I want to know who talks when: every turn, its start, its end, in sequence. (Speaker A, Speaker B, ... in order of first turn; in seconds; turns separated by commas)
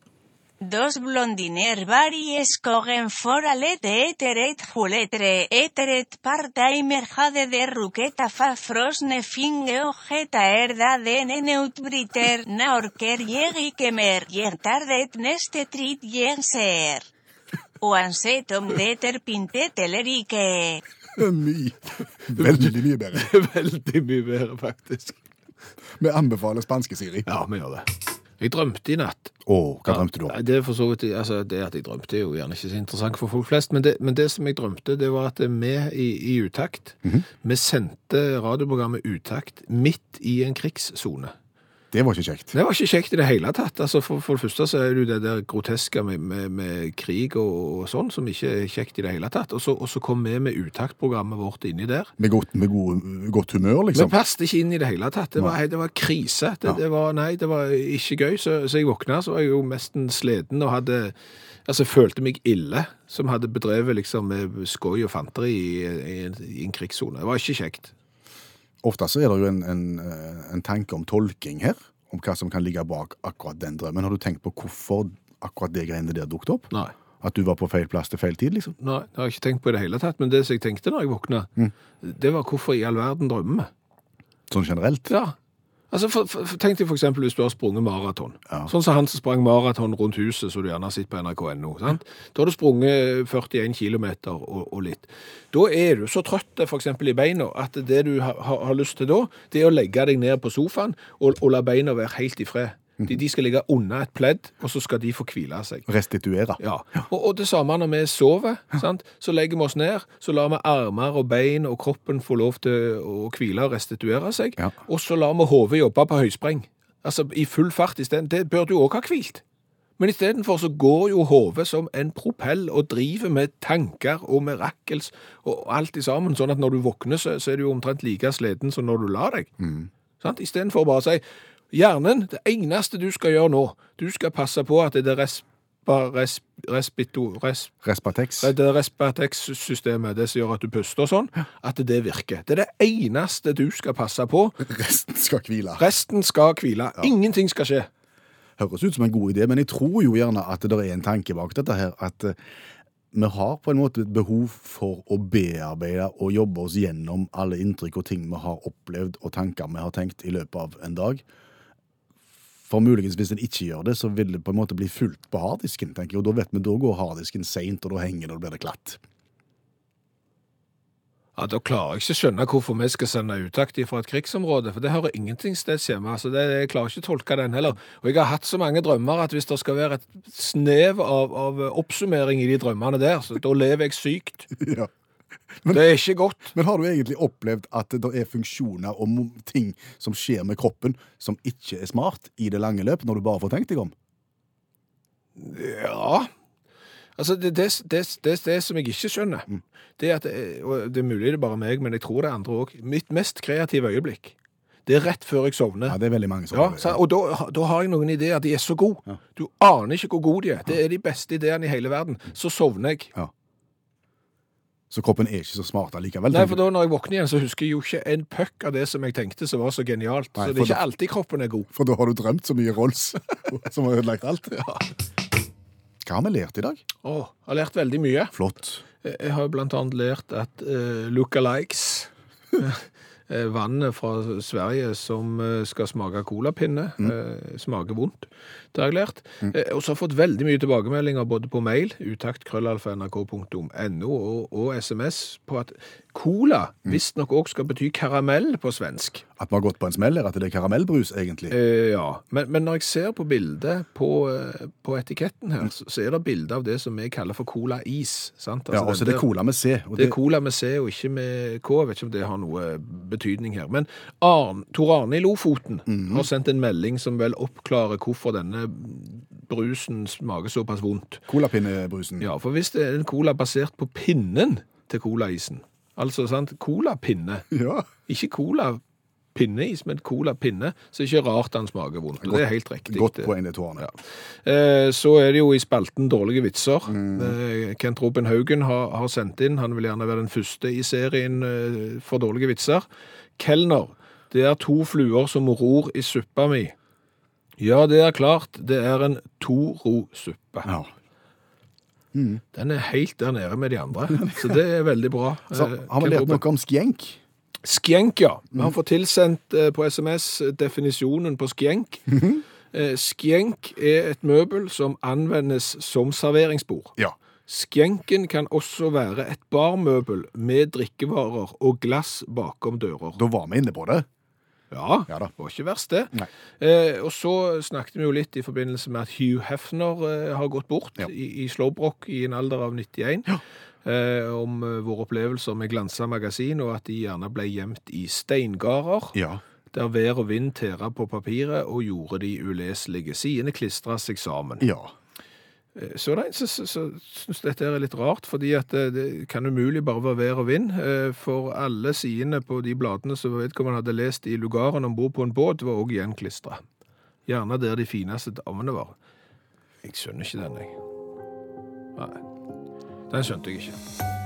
Speaker A: 0.6-17.1, Speaker A: 17.8-20.8, Speaker B: 21.1-23.3, Speaker C: 22.4-25.2, Speaker B: 26.0-27.3, Speaker C: 27.2-27.9, Speaker C: 28.4-29.3, Speaker B: 29.4-30.4, Speaker C: 29.9-41.3, Speaker B: 41.9-42.5, Speaker C: 42.5-52.1, Speaker B: 52.2-54.1, Speaker C: 53.9-67.9, Speaker B: 68.8-76.7, Speaker B: 77.2-78.8, Speaker C: 78.8-83.7, Speaker B: 84.5-85.1, Speaker C: 85.1-85.3, Speaker C: 85.9-105.9, Speaker B: 105.9-107.0, Speaker C: 106.6-119.4, Speaker C: 120.0-129.5, Speaker B: 129.6-129.9, Speaker C: 130.2-137.7, Speaker B: 137.8-138.5, Speaker C: 138.4-144.6, Speaker B: 144.6-145.8, Speaker C: 145.8-147.9, Speaker B: 148.6-152.4, Speaker B: 153.1-161.2, Speaker B: 162.7-169.0, Speaker C: 171.3-184.6, Speaker B: 184.6-184.9, Speaker C: 185.7-186.5, Speaker B: 186.5-193.9, Speaker C: 195.3-196.3, Speaker C: 197.2-204.3, Speaker C: 204.8-206.0, Speaker B: 205.8-207.0, Speaker C: 206.5-213.1, Speaker B: 214.9-216.6, Speaker C: 216.3-221.7, Speaker B: 220.3-220.8, Speaker B: 221.7-224.5, Speaker C: 224.5-224.8, Speaker B: 226.0-226.8, Speaker C: 227.0-228.3, Speaker B: 228.3-228.8, Speaker C: 229.0-249.2, Speaker B: 249.4-251.6, Speaker C: 251.5-259.3, Speaker B: 258.7-260.2, Speaker C: 259.9-271.2, Speaker B: 265.9-266.3, Speaker B: 271.3-272.3, Speaker C: 272.2-277.5, Speaker B: 277.5-277.9, Speaker C: 278.1-278.8, Speaker C: 279.3-292.9, Speaker B: 282.2-283.9, Speaker B: 286.9-287.4, Speaker C: 293.4-296.7, Speaker C: 297.6-300.7, Speaker B: 300.6-300.9, Speaker B: 302.1-302.4, Speaker C: 302.5-306.4, Speaker B: 304.1-304.6, Speaker B: 305.5-307.2, Speaker C: 307.6-312.2, Speaker B: 312.1-312.4, Speaker C: 312.7-323.2, Speaker B: 323.2-324.1, Speaker C: 324.7-339.2, Speaker B: 339.1-339.4, Speaker C: 339.7-344.7, Speaker B: 344.6-344.9, Speaker C: 345.7-356.6, Speaker C: 357.2-358.9, Speaker C: 359.8-360.8, Speaker C: 361.9-362.2, Speaker C: 363.1-363.8